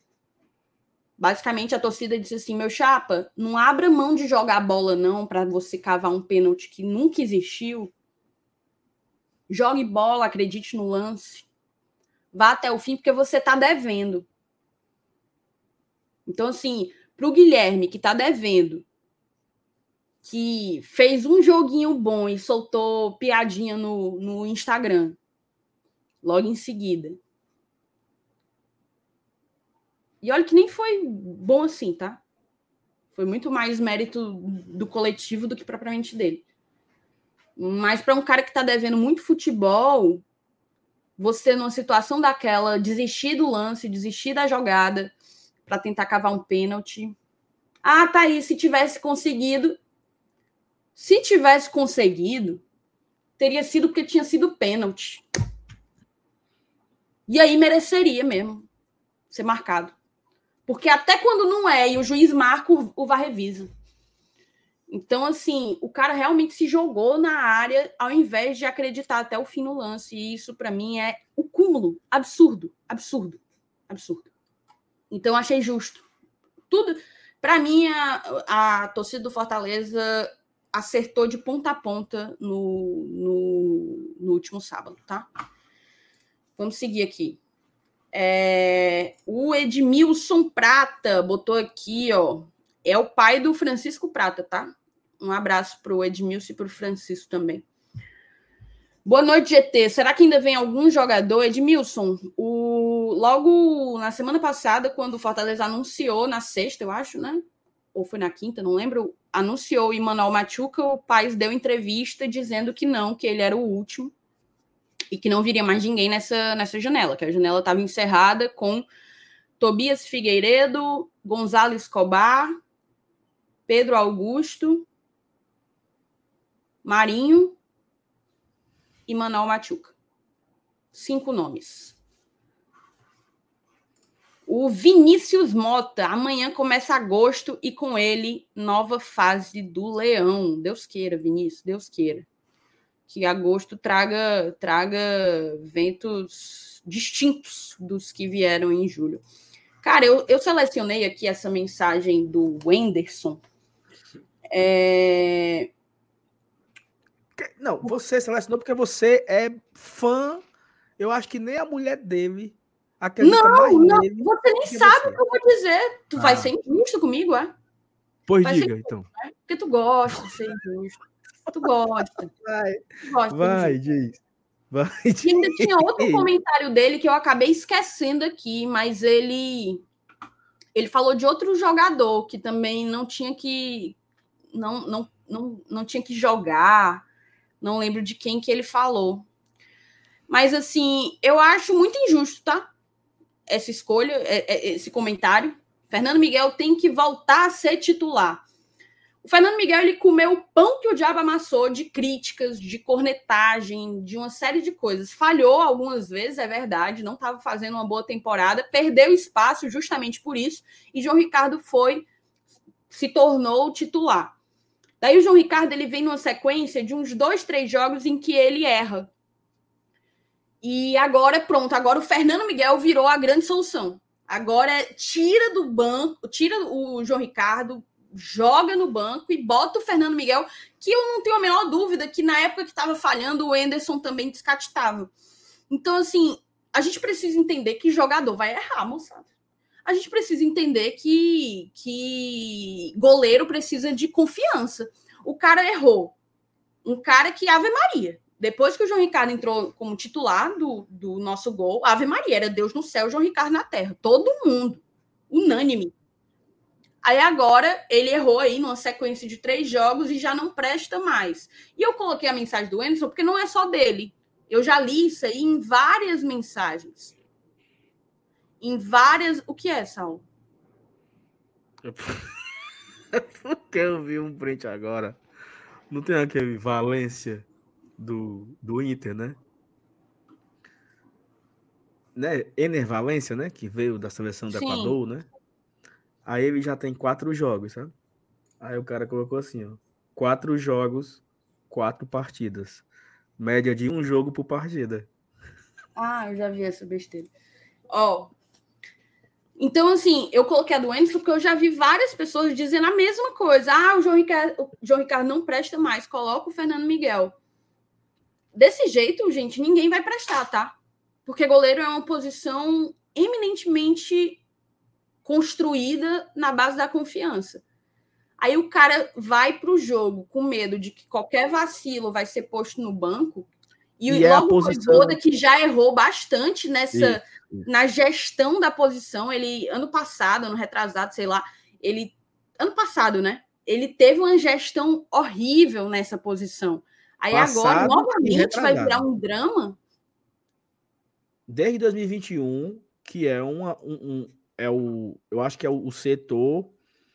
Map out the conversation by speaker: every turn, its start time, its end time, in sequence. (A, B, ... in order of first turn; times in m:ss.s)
0:01.2-0:07.9 A
0:09.5-0:11.5 A
0:12.3-0:14.3 A
0:16.3-0:18.9 A
0:20.2-0:25.2 A
0:26.2-0:27.2 A
0:30.2-0:32.2 A
0:33.1-0:36.4 A
0:37.6-0:40.2 A
0:41.2-0:45.1 A
0:45.7-0:47.2 A
0:47.8-0:49.8 A
0:51.0-0:52.6 A
0:53.4-0:55.2 A
0:57.3-0:58.7 A
0:59.3-1:00.0 A
1:00.7-1:03.7 A
1:04.9-1:14.3 A
1:15.1-1:16.0 A
1:16.7-1:25.3 A
1:26.6-1:27.4 A
1:28.1-1:37.6 A
1:39.0-1:47.4 A
1:47.9-1:54.1 A
1:55.1-1:58.9 A
1:59.6-2:02.5 A
2:03.7-2:04.9 A
2:06.8-2:07.6 A
2:09.1-2:10.0 A
2:10.9-2:12.0 A
2:14.5-2:22.3 A
2:23.1-2:29.2 A
2:29.8-2:33.4 A
2:34.5-2:35.7 A
2:37.4-2:40.4 B
2:41.0-2:45.2 B
2:43.2-2:47.5 A
2:46.2-2:46.5 B
2:48.3-2:49.1 B
2:48.4-2:52.3 A
2:52.3-2:54.2 B
2:53.0-2:53.8 A
2:54.7-2:56.3 B
2:55.2-2:59.8 A
3:00.8-3:04.0 A
3:04.5-3:07.0 A
3:07.6-3:09.3 A
3:10.3-3:12.7 A
3:13.5-3:18.4 A
3:19.2-3:32.1 A
3:32.9-3:34.4 A
3:35.0-3:39.1 A
3:40.6-3:55.1 A
3:55.7-3:59.3 A
3:59.8-4:06.2 A
4:06.8-4:16.0 A
4:17.0-4:27.2 A
4:28.6-4:30.2 A
4:31.8-4:32.3 B
4:33.1-4:35.2 B
4:35.9-4:37.4 B
4:38.0-4:39.4 B
4:42.2-4:45.2 B
4:44.5-4:45.0 A
4:46.2-4:47.9 B
4:48.6-4:52.8 B
4:53.4-4:55.1 B
4:56.0-4:57.3 A
4:57.9-4:58.3 A
4:59.6-5:07.4 A
5:08.6-5:10.8 A
5:11.3-5:14.4 A
5:15.2-5:17.6 A
5:18.4-5:23.5 A
5:24.0-5:39.8 A
5:24.1-5:25.2 B
5:26.9-5:27.7 B
5:37.3-5:39.0 B
5:41.5-5:46.7 B